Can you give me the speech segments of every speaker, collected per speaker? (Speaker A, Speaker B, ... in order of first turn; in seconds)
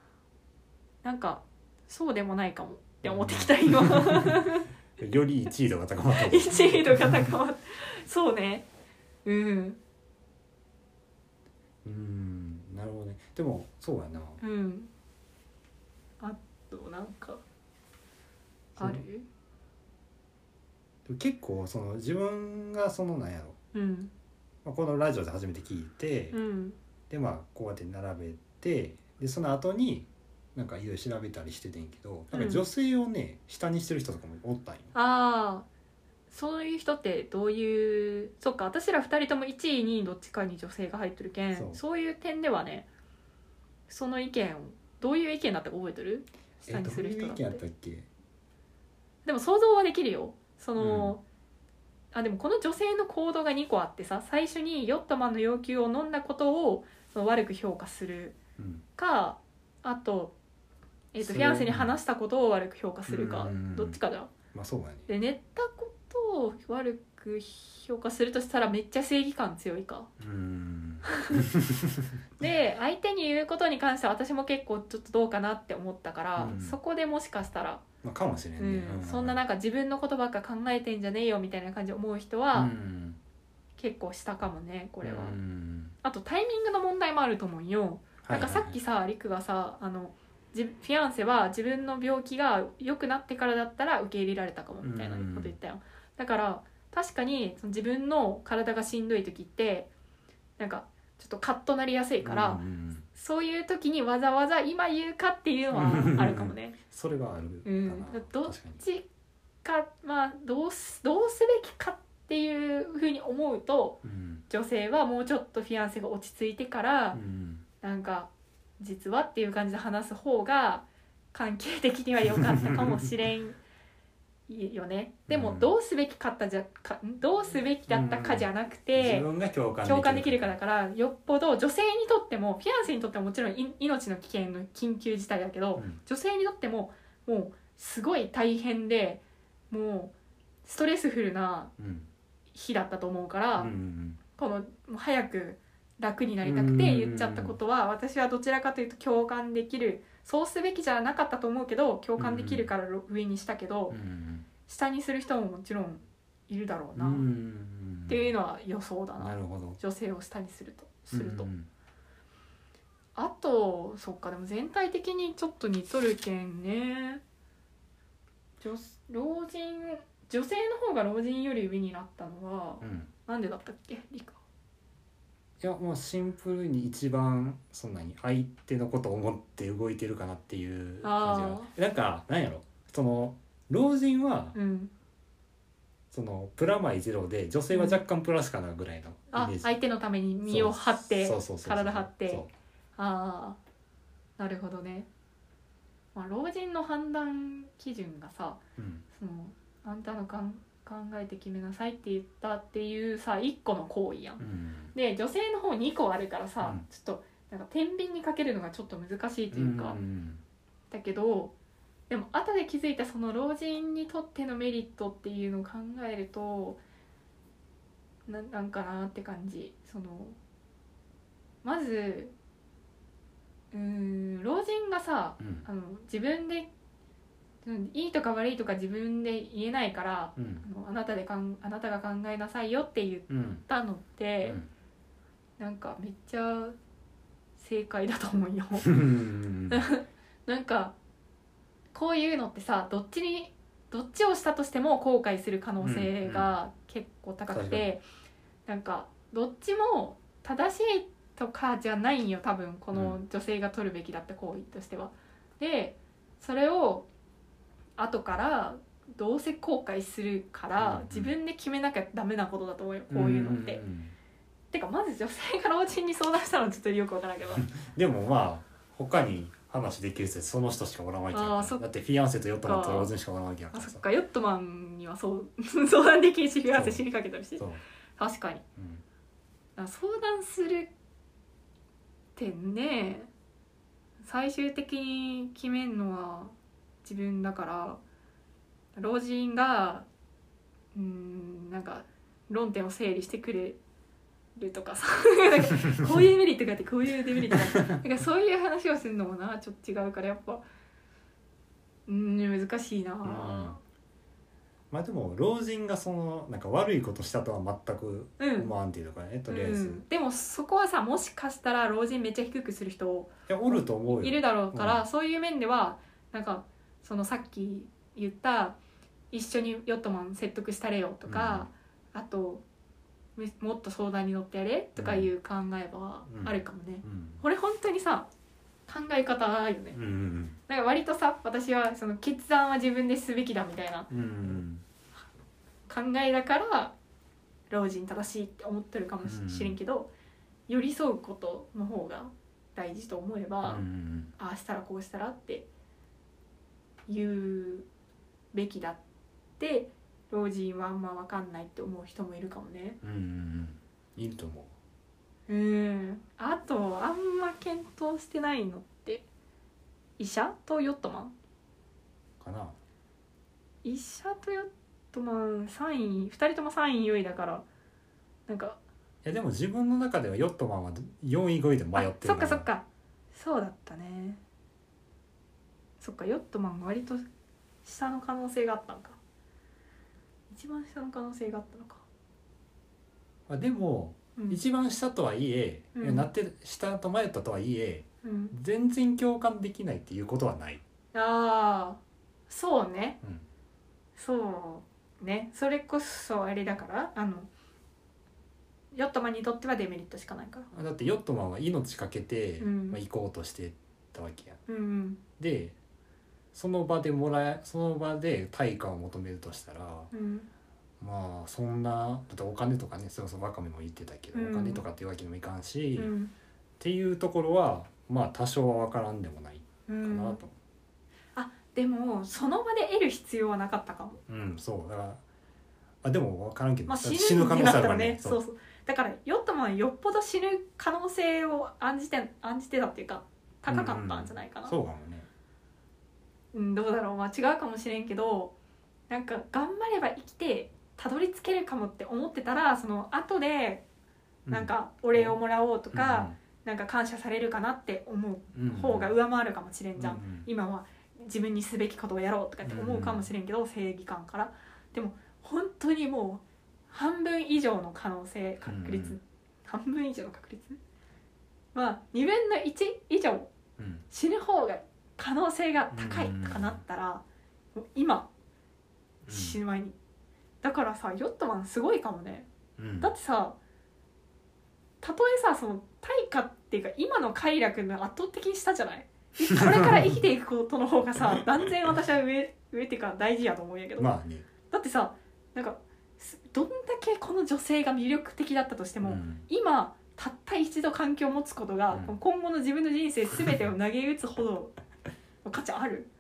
Speaker A: 1.0-4.7, 6.1-8.7, 9.2-9.8, 14.4-14.9, 16.2-17.4, 18.8-19.3, 23.7-24.1, 26.3-26.8, 32.3-32.6, 34.9-35.7, 36.3-42.9, 43.9-47.6, 49.3-51.2, 52.1-58.4, 59.0-60.3, 61.1-64.3, 65.1-70.1, 71.0-71.5, 72.4-77.8, 78.6-82.7, 83.8-85.4, 86.0-99.9, 100.6-102.6, 103.1-106.8, 107.6-109.1, 109.6-117.2, 117.8-123.6, 124.5-129.3, 129.8-141.7, 142.5-143.8, 144.3-154.0, 154.7-157.3, 158.1-161.5, 163.2-167.2, 168.6-174.4, 181.0-181.7, 184.6-184.9, 187.7-188.0, 189.3-193.6, 194.4-195.1, 196.2-198.6, 199.2-204.4, 204.9-210.0, 210.9-211.5, 212.1-216.8, 218.3-220.4, 221.6-222.3, 223.7-226.7, 227.6-234.6, 235.6-236.8, 237.6-238.9, 239.7-240.9, 241.9-248.0, 248.7-257.1, 258.0-263.8, 264.7-267.7, 271.3-271.8, 272.6-273.1, 273.7-277.6, 278.2-278.6, 279.8-280.9, 282.4-283.3, 284.2-288.0, 289.0-290.1, 290.9-293.8, 294.6-300.6, 302.1-303.8, 308.4-308.7, 309.5-318.8, 319.3-322.6, 323.4-328.3, 328.9-330.0, 330.7-334.1, 335.9-336.9, 337.7-340.1, 340.7-343.8, 344.4-345.7, 347.1-347.9, 348.5-349.0, 349.6-353.0, 355.5-359.3, 360.2-361.3, 363.8-367.6, 368.5-368.8, 371.9-374.4, 376.0-377.2, 377.9-379.2, 380.5-382.0, 385.9-386.3, 388.2-388.6, 391.1-393.2, 394.2-397.5, 398.9-400.7, 402.6-403.0, 404.7-405.2, 410.1-410.5, 414.3-414.8, 416.0-416.3, 419.9-420.4, 421.4-424.2, 426.9-434.8, 436.5-438.5, 439.1-443.8, 444.5-460.8, 461.7-463.5, 464.1-467.2, 467.8-468.3, 469.3-470.0, 470.6-472.5, 473.0-473.6, 475.0-484.1, 484.7-494.7, 495.4-496.1
Speaker B: 3.0-7.3, 11.8-14.4, 18.8-19.0, 21.1-23.6, 24.6-26.4, 27.1-34.9, 41.5-41.8, 46.6-48.1, 50.8-51.2, 58.6-58.8, 61.2-61.9, 63.1-64.0, 64.5-65.1, 70.2-72.2, 76.4-76.8, 78.0-79.4, 82.5-83.2, 85.0-86.0, 88.2-88.8, 94.8-95.5, 102.2-103.1, 105.7-108.8, 114.0-114.5, 117.1-117.7, 122.4-123.0, 125.3-125.7, 127.9-130.6, 141.8-142.1, 143.6-144.2, 146.4-147.6, 152.2-152.7, 153.9-154.5, 156.9-158.3, 159.2-159.8, 161.1-161.7, 172.8-173.1, 175.6-184.6, 186.1-189.7, 190.5-192.5, 198.8-199.1, 204.4-204.9, 209.5-210.4, 225.4-225.7, 230.4-230.7, 233.3-233.7, 234.4-234.7, 238.8-239.8, 245.8-246.5, 247.5-247.8, 252.9-253.2, 260.8-261.4, 263.1-264.1, 267.5-274.0, 276.7-277.1, 278.8-279.0, 295.9-296.2, 297.5-298.0, 303.2-303.8, 304.9-310.0, 313.5-315.0, 321.3-321.7, 325.0-325.3, 326.3-327.4, 329.9-330.6, 334.1-334.8, 339.2-339.8, 343.6-344.4, 353.0-354.7, 362.4-362.8, 369.2-372.7, 383.5-390.8, 400.7-404.6, 405.4-405.8, 406.5-410.1, 411.0-416.1, 416.8-420.5, 424.3-425.2, 426.0-428.4, 433.7-435.3, 444.5-445.4, 445.9-446.4, 448.5-449.1, 450.0-450.5, 452.6-453.3, 458.6-459.2, 463.8-464.1, 465.9-466.8, 469.2-469.6, 472.8-473.1, 479.6-480.1, 484.0-484.5, 489.0-489.5, 491.9-492.2